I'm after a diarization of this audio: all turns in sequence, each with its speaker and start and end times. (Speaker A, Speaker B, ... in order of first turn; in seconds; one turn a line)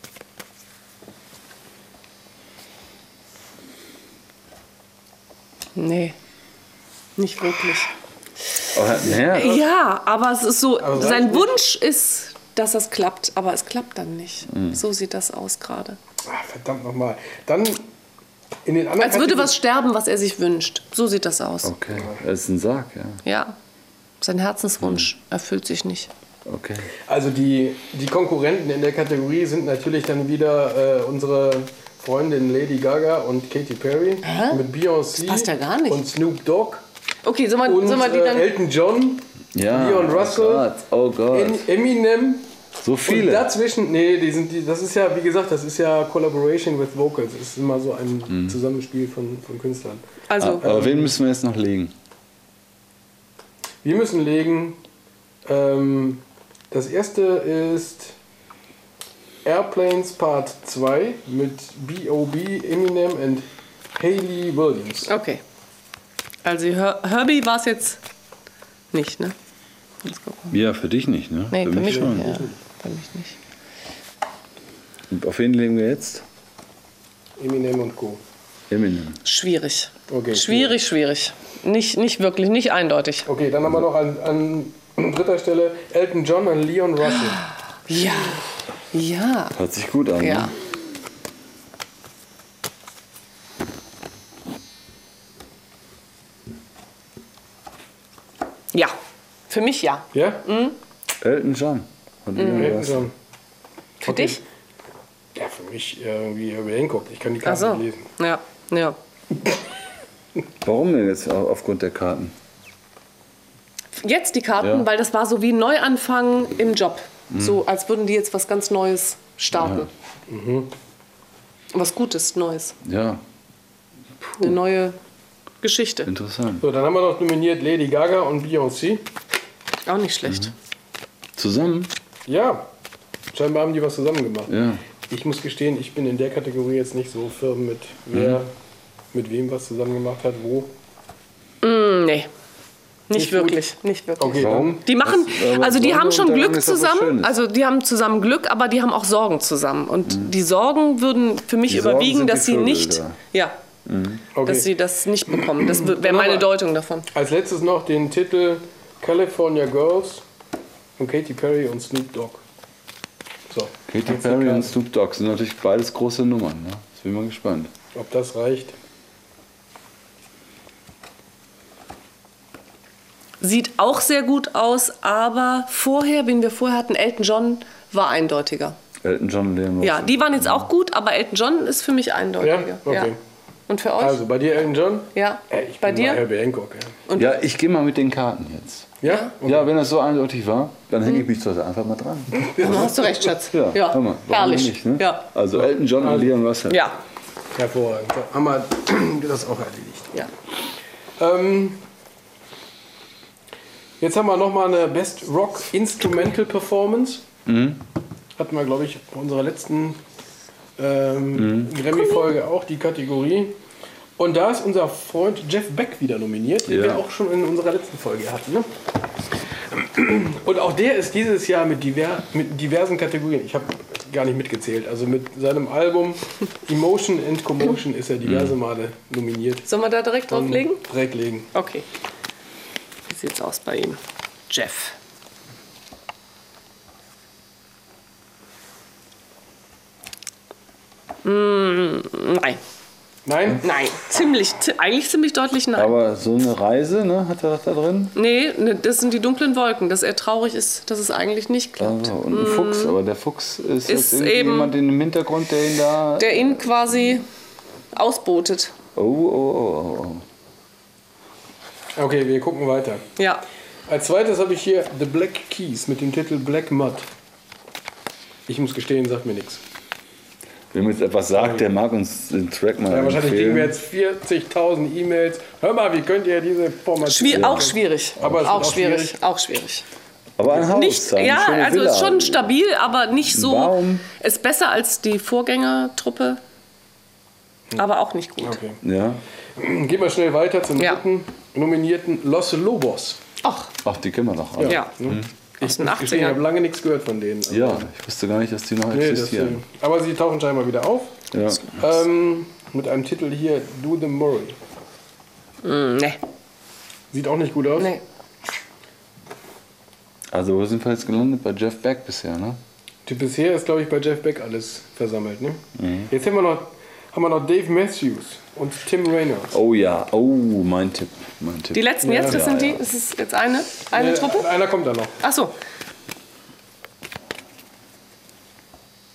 Speaker A: 5.8-6.2
Speaker A: 7.2-7.9
Speaker B: 8.7-9.6
Speaker A: 9.1-16.0
Speaker C: 10.8-11.6
Speaker B: 14.5-14.8
Speaker C: 16.3-17.9
Speaker C: 18.6-19.6
Speaker A: 19.0-21.7
Speaker B: 21.6-23.2
Speaker A: 23.2-23.6
Speaker A: 24.2-26.1
Speaker B: 26.5-26.9
Speaker C: 27.1-36.8
Speaker A: 34.2-34.6
Speaker A: 35.2-36.0
Speaker A: 37.2-38.5
Speaker C: 37.6-40.7
Speaker B: 39.5-41.6
Speaker C: 41.3-42.5
Speaker B: 42.8-43.5
Speaker C: 43.0-50.0
Speaker B: 48.3-48.6
Speaker A: 50.3-50.7
Speaker B: 50.4-51.9
Speaker C: 50.6-51.1
Speaker C: 53.8-54.8
Speaker C: 55.5-58.1
Speaker C: 59.5-65.1
Speaker A: 65.0-65.4
Speaker A: 66.5-68.0
Speaker A: 68.9-69.3
Speaker A: 70.0-70.5
Speaker B: 70.5-72.3
Speaker A: 71.5-73.4
Speaker C: 71.8-72.6
Speaker B: 75.1-76.2
Speaker C: 77.4-78.2
Speaker B: 78.7-79.2
Speaker A: 79.2-83.3
Speaker C: 80.1-80.8
Speaker C: 83.3-87.4
Speaker A: 87.9-89.6
Speaker B: 89.5-90.5
Speaker A: 90.2-90.5
Speaker A: 99.5-100.8
Speaker C: 100.1-100.4
Speaker B: 101.2-103.1
Speaker A: 102.4-102.8
Speaker C: 102.5-103.1
Speaker A: 104.0-104.4
Speaker C: 104.0-104.4
Speaker C: 105.3-108.1
Speaker A: 107.4-109.0
Speaker B: 110.6-112.3
Speaker A: 114.0-119.9
Speaker B: 114.6-114.9
Speaker B: 117.3-117.6
Speaker B: 119.6-119.9
Speaker C: 120.3-120.7
Speaker A: 121.7-122.8
Speaker B: 122.8-123.2
Speaker B: 124.2-124.5
Speaker A: 124.4-125.0
Speaker A: 125.6-126.1
Speaker B: 126.0-126.7
Speaker C: 126.6-129.1
Speaker A: 129.9-130.5
Speaker B: 131.4-131.9
Speaker C: 132.3-132.7
Speaker C: 133.3-134.5
Speaker B: 134.5-134.8
Speaker C: 135.1-138.5
Speaker B: 138.1-138.4
Speaker C: 139.1-140.7
Speaker A: 141.6-142.3
Speaker A: 143.1-153.6
Speaker C: 143.1-143.6
Speaker C: 144.2-144.8
Speaker B: 144.4-147.3
Speaker B: 151.7-153.2
Speaker B: 153.8-154.3
Speaker C: 154.3-154.7
Speaker A: 154.4-157.1
Speaker C: 155.3-156.5
Speaker C: 157.1-160.2
Speaker C: 161.0-162.4
Speaker C: 163.5-164.7
Speaker B: 163.9-167.7
Speaker C: 167.9-168.8
Speaker A: 173.4-178.8
Speaker B: 179.0-180.7
Speaker A: 179.8-183.1
Speaker C: 182.4-183.2
Speaker A: 183.7-184.2
Speaker C: 184.0-187.0
Speaker A: 185.1-186.2
Speaker A: 187.1-187.3
Speaker B: 187.2-192.9
Speaker C: 189.0-189.7
Speaker A: 189.1-189.3
Speaker C: 192.5-193.3
Speaker A: 192.6-195.3
Speaker B: 193.5-196.8
Speaker C: 195.6-196.3
Speaker A: 196.7-197.0
Speaker C: 197.6-200.2
Speaker C: 201.2-201.8
Speaker C: 204.0-207.3
Speaker B: 207.5-207.8
Speaker C: 208.4-210.0
Speaker C: 210.8-213.6
Speaker B: 211.3-211.7
Speaker A: 211.9-212.2
Speaker C: 214.2-218.7
Speaker B: 216.7-217.0
Speaker C: 219.7-229.7
Speaker B: 228.2-228.6
Speaker A: 229.7-230.8
Speaker C: 230.3-231.5
Speaker A: 231.5-231.8
Speaker A: 233.1-234.9
Speaker A: 241.2-242.6
Speaker C: 243.3-243.6
Speaker A: 243.6-245.9
Speaker B: 245.8-248.2
Speaker A: 248.2-253.0
Speaker B: 251.8-256.4
Speaker A: 253.9-254.7
Speaker A: 256.2-257.2
Speaker A: 257.9-258.7
Speaker B: 258.9-260.2
Speaker C: 262.0-263.0
Speaker A: 263.2-263.4
Speaker C: 263.9-267.1
Speaker C: 268.5-269.6
Speaker B: 270.7-273.8
Speaker C: 271.4-271.6
Speaker C: 272.9-279.2
Speaker A: 277.1-279.8
Speaker B: 277.3-278.7
Speaker B: 280.4-282.4
Speaker A: 280.7-286.4
Speaker B: 283.3-284.1
Speaker A: 287.8-288.6
Speaker C: 288.4-288.8
Speaker B: 288.8-289.2
Speaker C: 289.6-293.2
Speaker A: 293.4-293.7
Speaker B: 293.8-295.3
Speaker C: 294.6-297.9
Speaker A: 294.6-294.9
Speaker A: 295.6-296.4
Speaker B: 297.5-299.6
Speaker C: 298.9-304.6
Speaker B: 301.3-301.8
Speaker A: 305.6-306.2
Speaker C: 307.1-307.9
Speaker A: 307.8-308.0
Speaker B: 310.3-312.6
Speaker C: 313.1-319.5
Speaker B: 315.8-316.1
Speaker B: 319.5-322.8
Speaker A: 321.7-324.5
Speaker C: 322.0-322.4
Speaker C: 323.9-325.1
Speaker A: 325.2-325.6